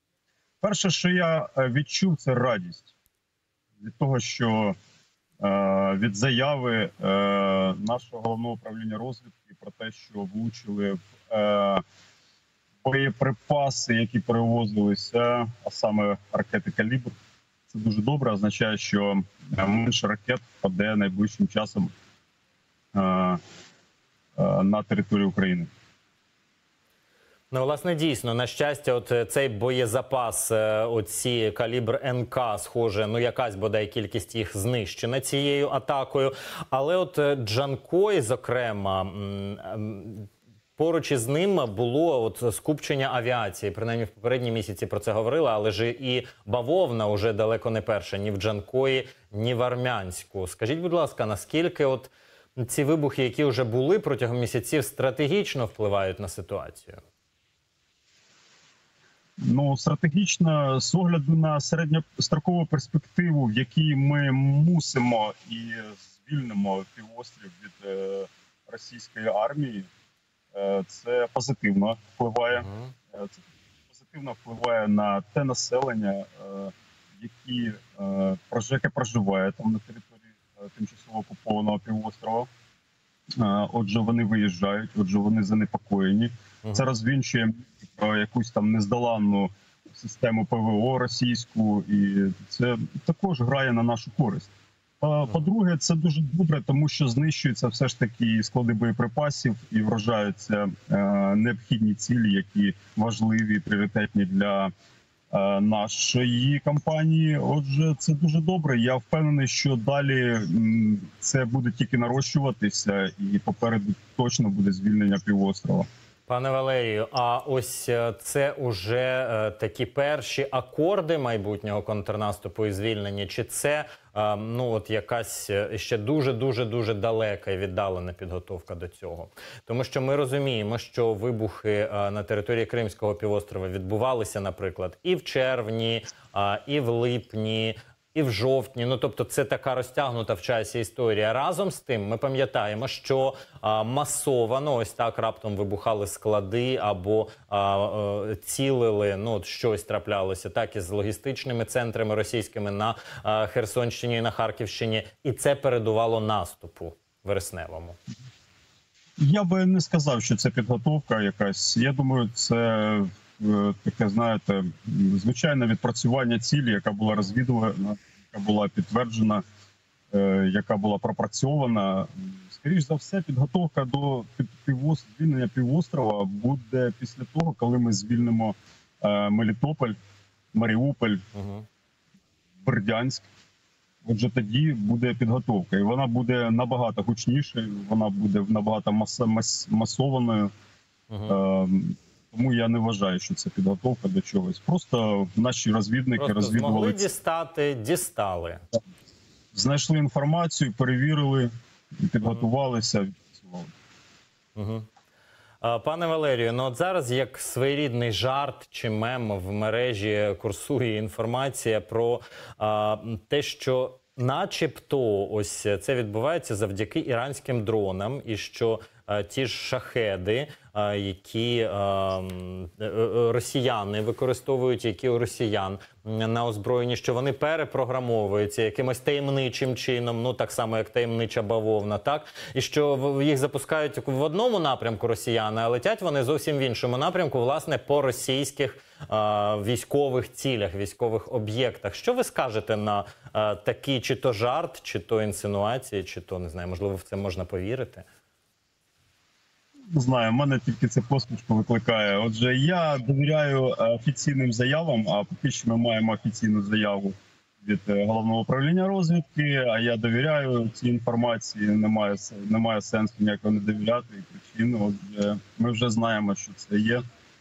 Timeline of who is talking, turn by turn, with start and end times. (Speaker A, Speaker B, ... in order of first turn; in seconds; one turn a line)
Speaker A: 0.6-2.9
Speaker A: 3.8-4.8
Speaker A: 5.4-11.8
Speaker A: 12.8-17.1
Speaker A: 17.7-21.9
Speaker A: 22.9-23.4
Speaker A: 24.4-25.7
Speaker B: 27.5-57.0
Speaker A: 59.4-69.9
Speaker A: 70.5-82.5
Speaker B: 72.6-72.9
Speaker A: 83.4-104.7
Speaker A: 105.3-115.9
Speaker B: 116.3-158.0
Speaker A: 159.2-169.4
Speaker A: 170.1-180.0
Speaker A: 180.5-181.2
Speaker B: 181.3-181.7
Speaker A: 182.6-183.3
Speaker A: 184.1-190.5
Speaker B: 191.1-191.4
Speaker A: 191.3-197.1
Speaker B: 196.2-198.6
Speaker A: 199.5-201.5
Speaker A: 202.0-203.7
Speaker B: 204.6-204.9
Speaker B: 205.6-248.1
Speaker A: 249.9-267.0